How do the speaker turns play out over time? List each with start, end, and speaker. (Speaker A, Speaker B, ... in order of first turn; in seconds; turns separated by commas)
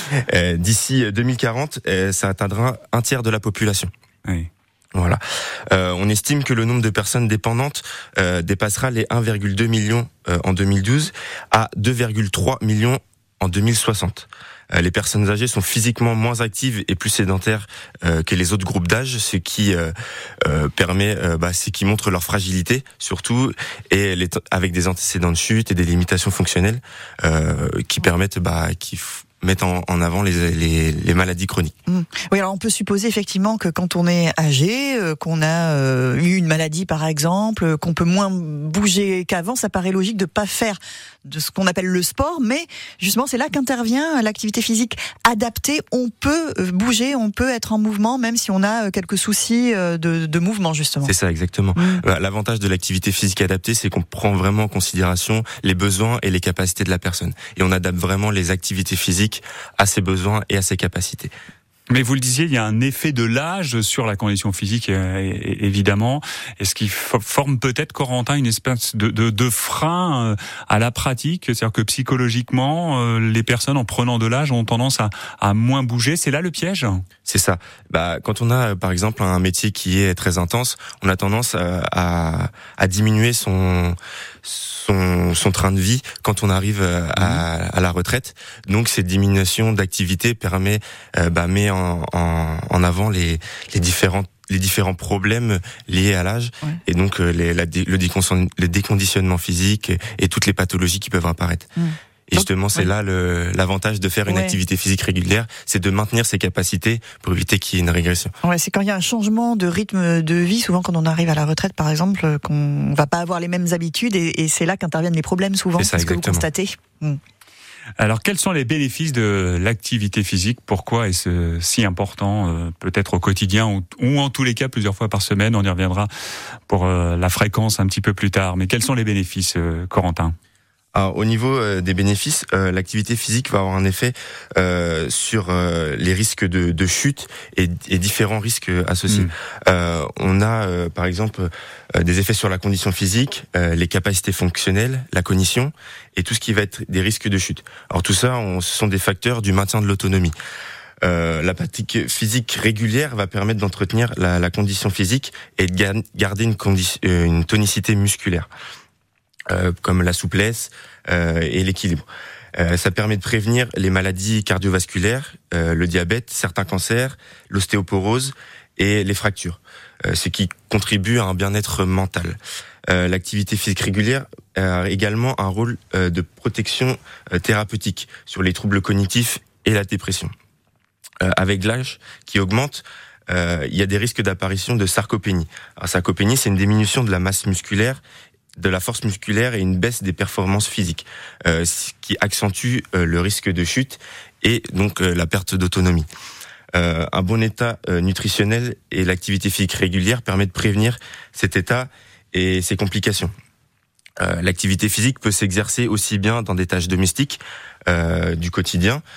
Speaker A: 0.1-3.9, Speaker B: 4.2-4.5, Speaker A: 4.9-31.7, Speaker C: 31.9-51.1, Speaker A: 51.0-61.3, Speaker C: 51.8-52.0, Speaker B: 61.9-77.0, Speaker A: 77.3-101.7, Speaker B: 87.2-87.4, Speaker C: 101.8-102.9, Speaker A: 102.3-108.3, Speaker C: 104.3-104.6, Speaker C: 108.4-117.2, Speaker A: 115.7-116.5, Speaker B: 118.0-126.1, Speaker B: 126.7-130.3, Speaker A: 130.9-150.3, Speaker A: 151.0-158.5, Speaker A: 159.5-180.3, Speaker A: 181.2-188.0, Speaker A: 188.6-196.1, Speaker A: 196.7-203.3, Speaker A: 204.2-209.0